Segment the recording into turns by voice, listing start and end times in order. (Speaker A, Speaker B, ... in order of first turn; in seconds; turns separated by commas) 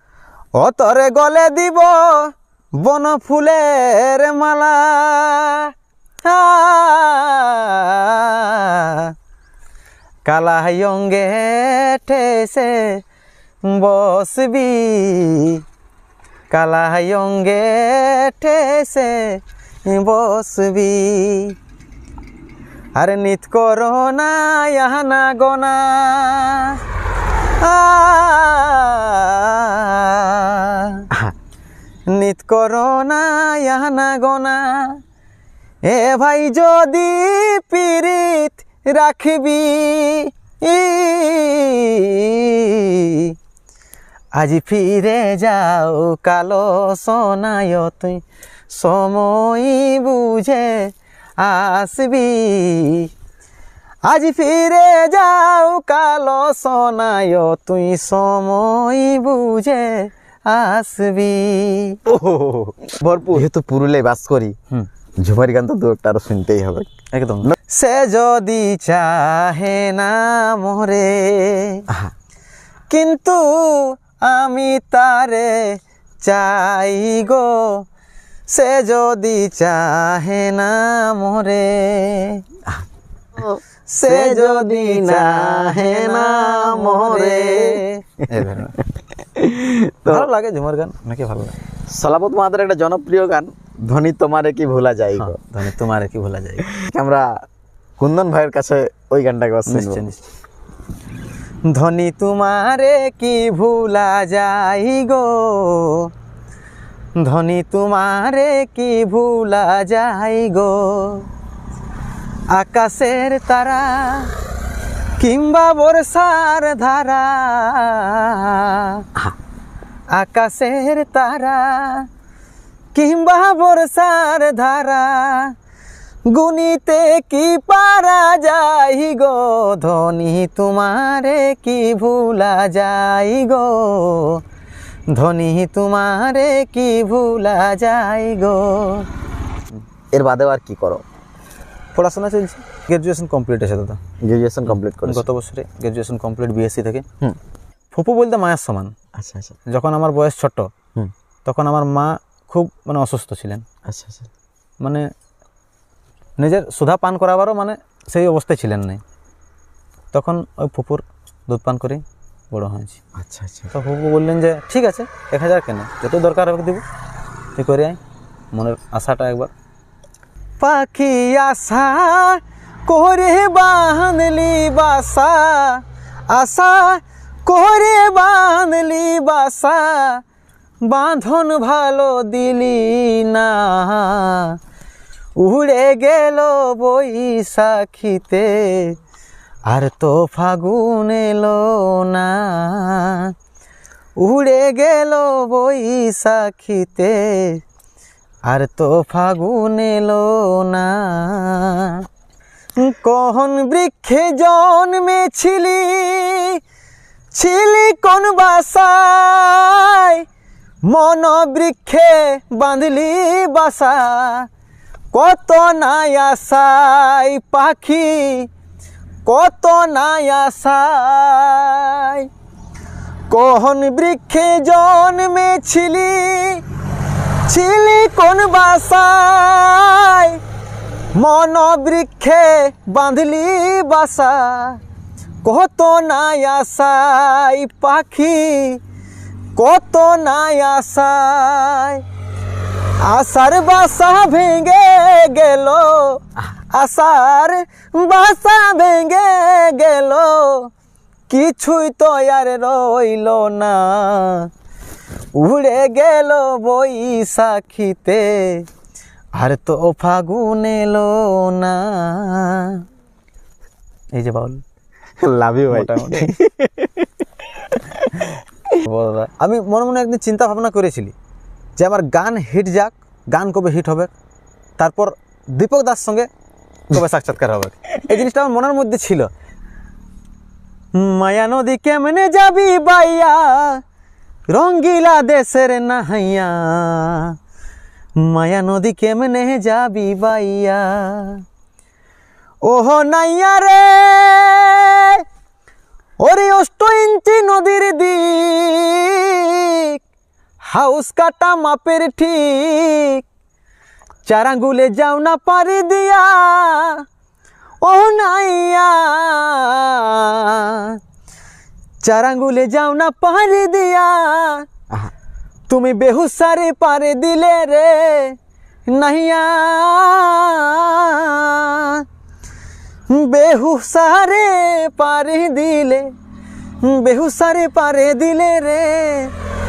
Speaker A: 0.6-5.7, Speaker A: 6.2-9.1, Speaker A: 10.2-13.0, Speaker A: 13.7-15.6, Speaker A: 16.5-21.6, Speaker A: 22.9-26.8, Speaker A: 27.6-31.1, Speaker A: 32.1-35.0, Speaker A: 35.9-43.3, Speaker A: 44.3-53.1, Speaker A: 54.0-62.0, Speaker B: 62.0-64.5, Speaker A: 63.0-63.4, Speaker B: 65.2-66.9, Speaker A: 67.1-71.8, Speaker A: 72.9-77.8, Speaker A: 78.5-82.4, Speaker B: 83.4-87.8, Speaker A: 83.9-88.8, Speaker B: 88.4-88.7, Speaker B: 89.2-90.3, Speaker A: 90.1-91.6, Speaker B: 91.9-95.4, Speaker A: 95.2-96.7, Speaker B: 96.6-97.4, Speaker B: 98.0-100.1, Speaker A: 99.7-100.2, Speaker A: 101.7-106.1, Speaker A: 107.2-111.3, Speaker A: 112.5-114.3, Speaker A: 115.2-119.1, Speaker A: 120.1-122.1, Speaker A: 122.9-125.5, Speaker A: 126.3-134.4, Speaker A: 135.1-139.1, Speaker B: 140.1-141.0, Speaker A: 141.9-144.0, Speaker B: 144.2-145.2, Speaker A: 144.7-147.0, Speaker A: 147.9-148.9, Speaker B: 149.2-149.6, Speaker A: 149.7-150.7, Speaker A: 151.4-153.6, Speaker B: 153.8-154.3, Speaker A: 154.8-155.1, Speaker A: 156.4-159.0, Speaker A: 160.1-163.0, Speaker B: 163.2-163.7, Speaker A: 163.7-166.8, Speaker A: 167.6-168.0, Speaker A: 168.5-169.5, Speaker A: 170.6-180.2, Speaker A: 180.8-184.6, Speaker A: 185.4-188.9, Speaker A: 189.7-193.3, Speaker A: 194.2-197.6, Speaker A: 198.5-202.0, Speaker A: 202.8-206.6, Speaker A: 207.3-210.2, Speaker A: 210.8-214.5, Speaker A: 215.1-218.5, Speaker A: 219.2-222.3, Speaker A: 223.3-226.6, Speaker A: 227.4-230.4, Speaker A: 231.1-234.8, Speaker A: 235.4-238.8, Speaker A: 239.6-242.0, Speaker A: 243.0-250.7, Speaker A: 251.3-254.5, Speaker A: 255.4-258.7, Speaker A: 259.4-262.8, Speaker A: 264.1-264.6, Speaker B: 265.2-267.1, Speaker A: 265.7-266.3, Speaker B: 267.8-268.3, Speaker A: 268.8-271.1, Speaker A: 271.8-274.1, Speaker A: 274.8-276.3, Speaker A: 276.9-279.3, Speaker A: 280.9-283.8, Speaker A: 284.5-287.3, Speaker A: 288.2-291.4, Speaker A: 292.6-295.2, Speaker A: 296.2-300.0, Speaker A: 300.7-303.2, Speaker A: 304.2-307.0, Speaker A: 307.8-311.0, Speaker A: 312.0-314.7, Speaker A: 315.7-318.4, Speaker A: 318.9-322.0, Speaker A: 323.1-326.1, Speaker A: 326.8-329.3